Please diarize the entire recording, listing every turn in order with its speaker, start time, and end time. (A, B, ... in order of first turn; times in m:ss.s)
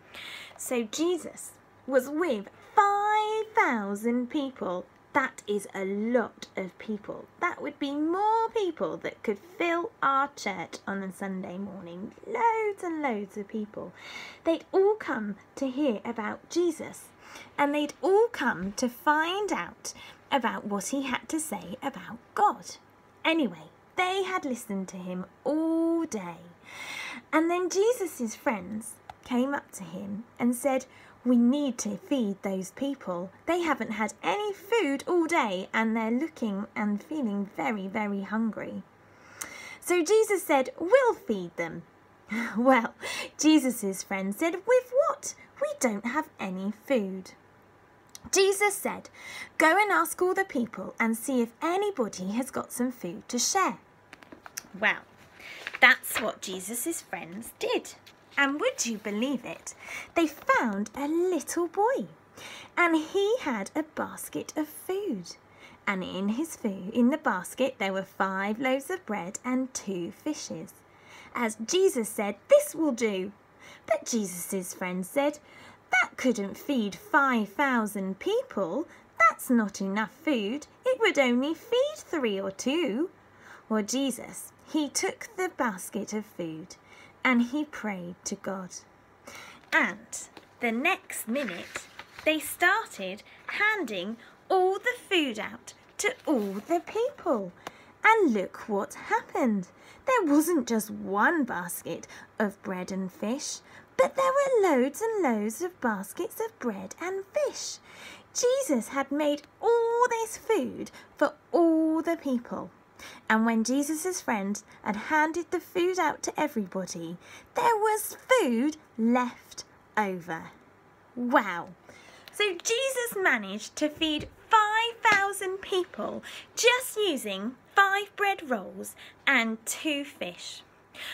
0:00.6-0:38.8 A
0:39.8-0:47.4 A
0:48.3-0:53.8 A
0:54.8-0:55.1 A
0:55.8-1:02.2 A
1:02.8-1:10.8 A
1:11.3-1:23.1 A
1:23.7-1:28.8 A
1:29.7-1:47.8 A
1:48.3-1:52.7 A
1:53.3-2:00.5 A
2:01.2-2:01.8 A
2:02.3-2:10.6 A